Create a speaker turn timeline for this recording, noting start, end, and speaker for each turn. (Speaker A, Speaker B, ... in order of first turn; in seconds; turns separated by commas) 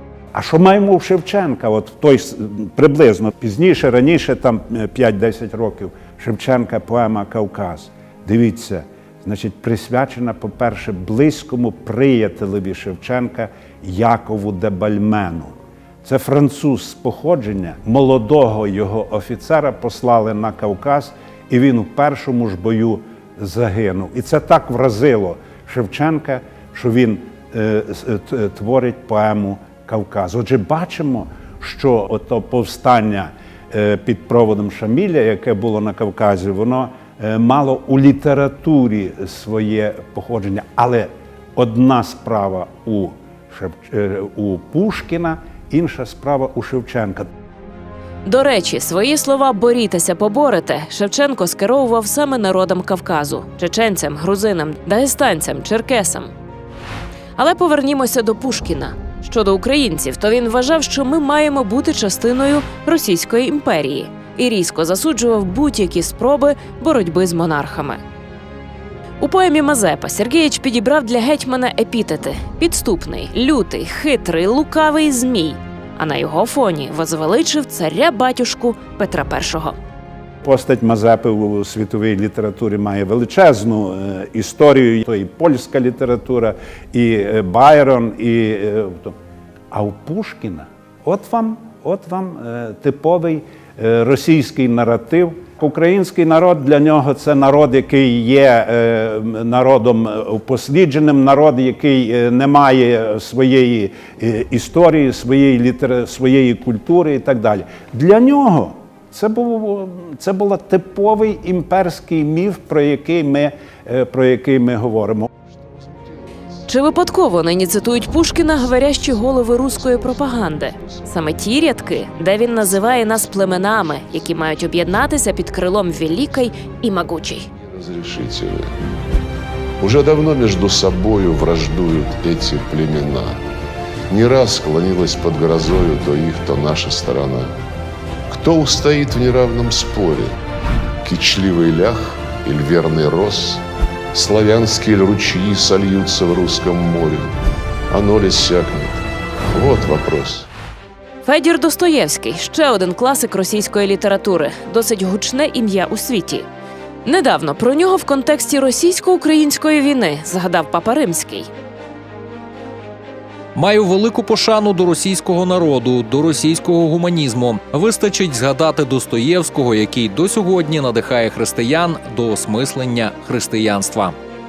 Speaker A: 0.3-47.3, Speaker B: 48.2-56.3, Speaker B: 57.4-68.0, Speaker B: 69.2-79.8, Speaker A: 80.4-89.1, Speaker A: 89.7-115.3, Speaker B: 116.7-127.5, Speaker C: 127.6-128.7, Speaker C: 129.8-133.4, Speaker C: 134.1-137.5, Speaker C: 138.3-140.4, Speaker C: 141.0-143.6, Speaker C: 144.1-147.3, Speaker C: 147.9-150.5, Speaker B: 151.2-156.4, Speaker B: 157.0-161.5, Speaker D: 163.5-174.1